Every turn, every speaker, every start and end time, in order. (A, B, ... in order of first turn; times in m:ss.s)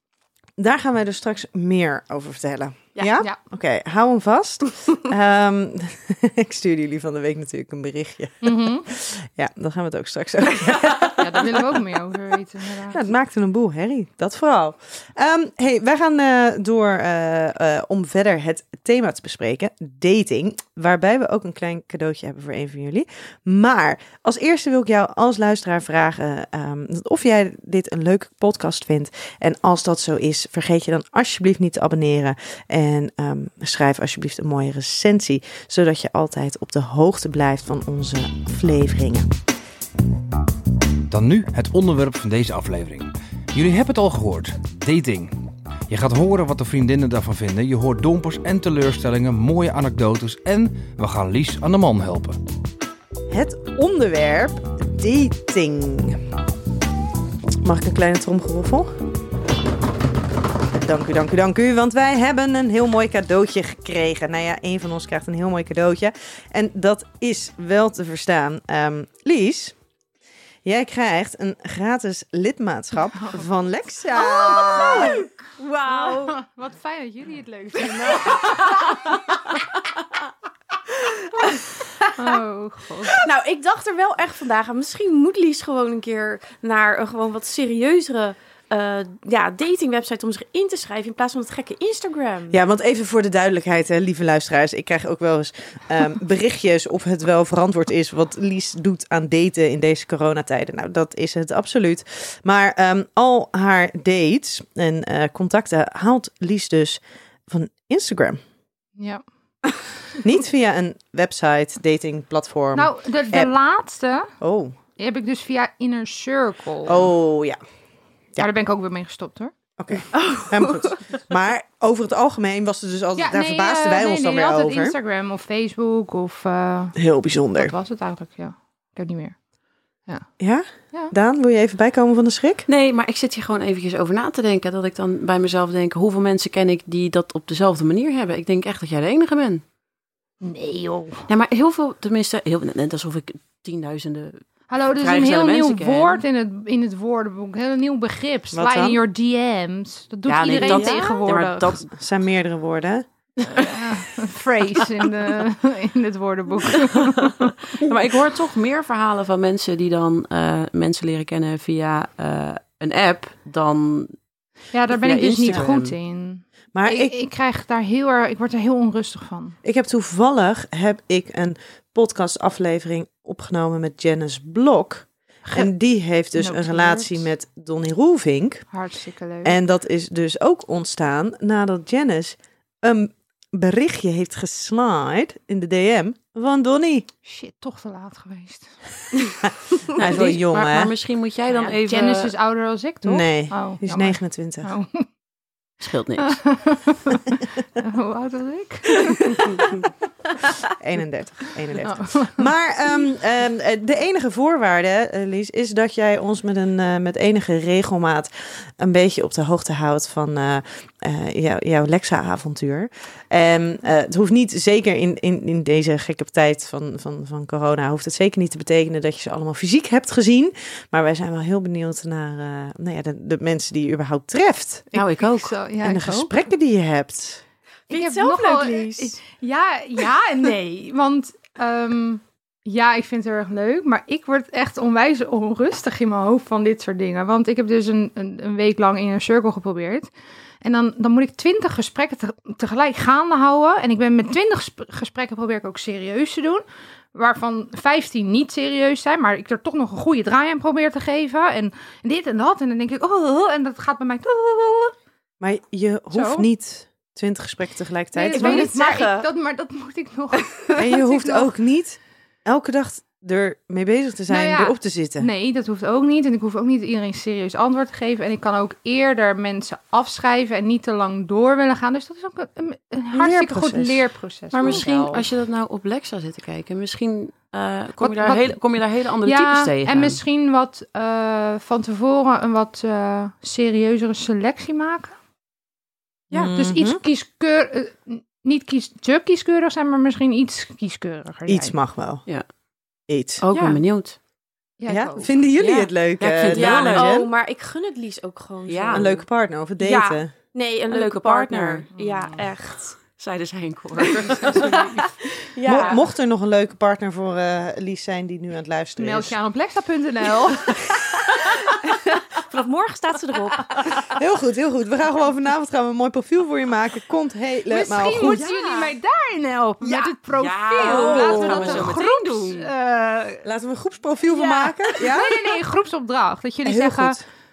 0:00.6-0:11.8 A
0:03.0-0:03.2 B
0:08.4-0:08.9 C
0:11.2-0:13.0 C
0:12.9-0:39.3 A
0:41.1-0:45.4 D
0:45.9-0:52.4 D
0:53.3-0:56.2 A
0:57.6-0:58.9 A
1:00.7-1:09.8 A
1:10.6-1:15.2 A
1:14.1-1:16.4 B
1:14.7-1:15.1 C
1:15.9-1:18.7 C
1:18.0-1:18.8 B
1:21.0-1:22.3 B
1:22.2-1:23.2 C
1:23.1-1:32.6 B
1:32.5-1:48.4 A
1:49.0-1:49.2 C
1:50.2-1:53.5 A
1:52.8-1:54.3 C
1:54.4-1:54.8 A
1:55.0-1:57.1 C
1:56.9-1:57.6 A
1:58.4-1:59.5 C
1:59.8-2:05.0 A
2:00.1-2:01.1 B
2:03.2-2:07.0 C
2:07.0-2:07.7 A
2:07.6-2:09.4 C
2:10.4-2:12.7 A
2:12.7-2:19.6 E
2:20.4-2:21.2 C
2:21.3-2:24.4 E
2:24.7-2:31.7 C
2:25.0-2:26.2 E
2:28.5-2:29.0 A
2:30.3-2:31.8 E
2:30.5-2:31.8 B
2:31.9-2:33.1 A
2:33.5-2:37.5 C
2:37.8-2:44.2 E
2:44.7-2:49.6 C
2:44.9-2:45.9 E
2:46.7-2:47.1 A
2:49.6-2:58.7 A
2:55.4-2:55.7 C
2:56.3-2:57.3 C
2:58.7-2:59.6 C
2:59.4-3:07.1 A
3:07.2-3:08.8 C
3:09.9-3:10.9 A
3:10.0-3:12.3 E
3:11.8-3:15.1 C
3:13.0-3:14.7 A
3:15.8-3:16.4 E
3:16.3-3:19.4 C
3:20.8-3:47.4 A
3:21.8-3:22.5 C
3:44.9-3:45.4 E
3:45.0-3:46.4 C
3:47.9-3:49.1 B
3:47.9-4:00.1 C
4:00.6-4:14.9 C
4:15.4-4:18.7 A
4:16.1-4:16.5 C
4:18.1-4:21.5 C
4:18.3-4:19.3 B
4:20.8-4:25.3 A
4:24.3-4:35.2 C
4:33.1-4:34.0 A
4:34.5-4:35.3 B
4:34.6-4:40.2 E
4:38.0-4:38.6 C
4:39.2-4:45.1 C
4:46.3-4:47.0 A
4:46.6-4:51.8 C
4:51.5-4:52.2 A
4:53.1-4:53.4 A
4:53.4-4:54.2 E
4:53.5-4:53.8 B
4:54.8-4:55.3 C
4:54.9-4:57.3 A
4:55.6-4:55.9 B
4:55.6-4:57.1 E
4:56.5-4:59.2 B
4:58.7-4:59.2 E
4:58.9-5:00.3 A
4:59.8-5:00.1 C
5:00.5-5:03.0 B
5:00.9-5:04.7 E
5:01.9-5:02.4 C
5:04.0-5:06.0 B
5:04.1-5:05.1 C
5:05.6-5:09.3 A
5:09.0-5:10.9 C
5:11.8-5:14.1 B
5:14.1-5:18.5 A
5:17.7-5:23.4 C
5:18.2-5:18.9 B
5:19.8-5:20.1 B
5:20.3-5:22.7 E
5:20.8-5:21.8 B
5:20.8-5:22.0 A
5:23.4-5:25.4 A
5:24.3-5:24.8 B
5:25.0-5:27.2 C
5:26.6-5:27.2 A